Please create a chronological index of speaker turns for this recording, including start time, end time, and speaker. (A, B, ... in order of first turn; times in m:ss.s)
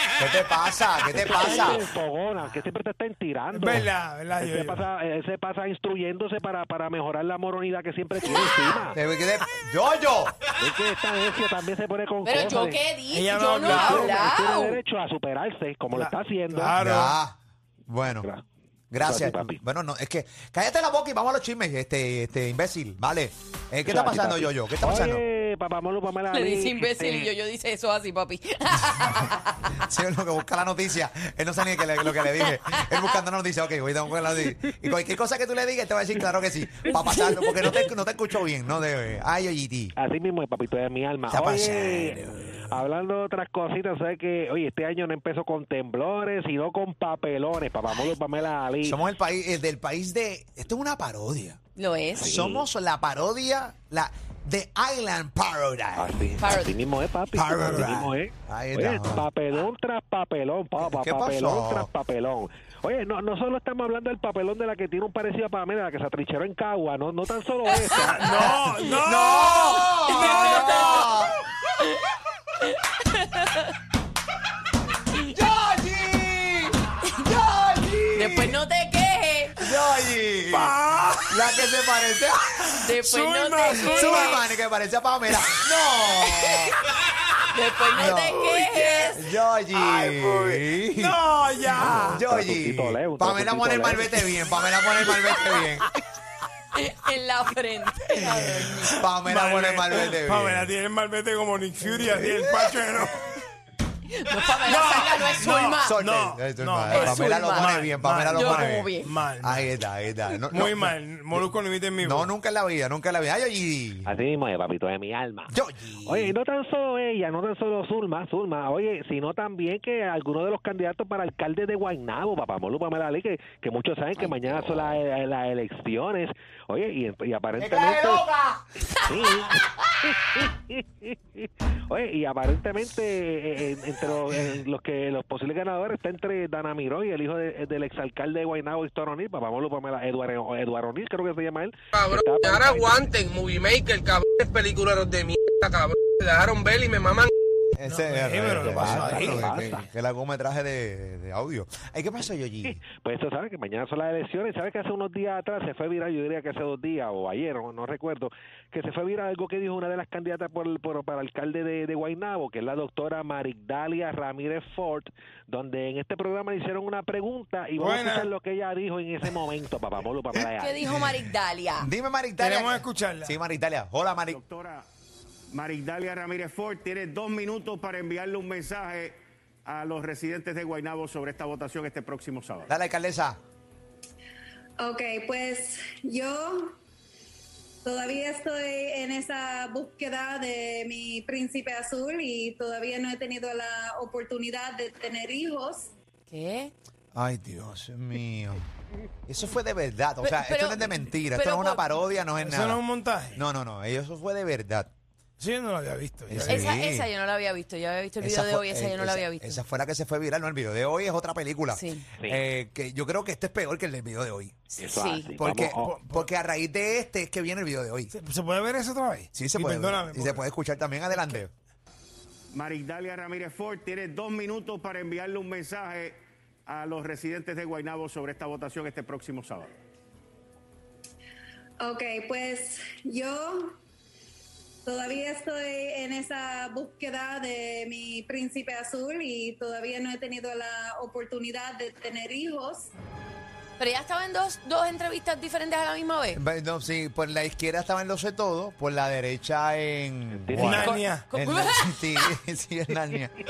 0:00.2-0:01.8 A
0:01.2-0:09.0 B
0:03.5-0:04.8 C
0:08.9-0:10.4 A
0:10.6-0:12.8 B
0:12.3-0:14.8 D
0:13.1-0:14.3 C
0:13.6-0:16.8 B
0:15.9-0:17.2 C
0:16.8-0:18.3 A
0:18.9-0:25.2 A
0:19.0-0:19.6 B
0:23.9-0:27.3 B
0:26.3-0:29.8 D
0:29.8-0:40.0 A
0:32.1-0:33.2 D
0:40.0-0:49.0 B
0:41.3-0:42.8 A
0:48.8-0:51.6 A
0:51.8-0:52.6 D
0:52.2-0:56.2 A
0:56.0-1:08.5 B
0:56.4-0:56.7 D
0:57.3-0:59.3 A
1:00.8-1:01.9 A
1:07.9-1:10.7 C
1:08.1-1:11.1 D
1:09.0-1:11.3 A
1:12.6-1:13.7 D
1:15.2-1:18.6 A
1:18.1-1:19.6 D
1:19.6-1:20.8 A
1:20.5-1:21.4 C
1:21.3-1:22.8 A
1:22.8-1:24.4 D
1:23.0-1:24.4 C
1:23.7-1:26.7 A
1:26.2-1:26.9 D
1:27.5-1:29.3 D
1:27.9-1:28.6 A
1:28.4-1:29.0 C
1:29.1-1:31.2 A
1:29.8-1:32.2 C
1:31.7-1:35.9 A
1:31.8-1:34.2 B
1:36.7-1:39.0 D
1:38.9-1:40.7 A
1:39.2-1:43.3 C
1:42.1-1:42.7 A
1:44.1-1:46.0 D
1:44.6-1:49.7 C
1:45.7-1:51.5 A
1:46.9-1:47.8 D
1:48.3-1:49.1 D
1:50.5-1:52.3 C
1:52.0-1:54.1 A
1:54.1-1:55.5 B
1:55.5-1:56.3 A
1:56.0-2:08.2 B
2:04.2-2:04.8 D
2:07.6-2:08.6 A
2:09.0-2:23.1 B
2:21.9-2:27.3 E
2:27.8-2:32.8 A
2:27.8-2:29.8 C
2:28.6-2:29.9 B
2:32.6-2:50.8 B
2:47.8-2:48.3 C
2:50.5-2:51.9 D
2:50.9-2:51.2 A
2:51.8-2:54.4 A
2:52.4-2:53.4 C
2:54.3-2:54.9 F
2:55.5-3:02.7 F
3:02.7-3:03.4 A
3:04.8-3:06.8 G
3:07.8-3:15.9 G
3:16.3-3:16.7 D
3:17.1-3:18.7 A
3:19.3-3:22.8 A
3:20.2-3:21.9 D
3:22.4-3:23.4 C
3:23.3-3:24.9 A
3:25.4-3:26.7 C
3:26.3-3:27.1 A
3:26.5-3:29.6 D
3:28.2-3:34.6 A
3:31.7-3:32.1 D
3:34.8-3:35.3 D
3:34.8-3:36.0 B
3:35.4-3:38.1 A
3:38.1-3:40.4 C
3:39.3-3:41.5 A
3:42.5-3:49.7 F
3:51.8-3:53.8 G
3:54.8-4:02.9 G
4:03.8-4:06.4 D
4:06.3-4:13.4 A
4:10.3-4:10.8 B
4:10.6-4:11.2 C
4:10.8-4:12.1 D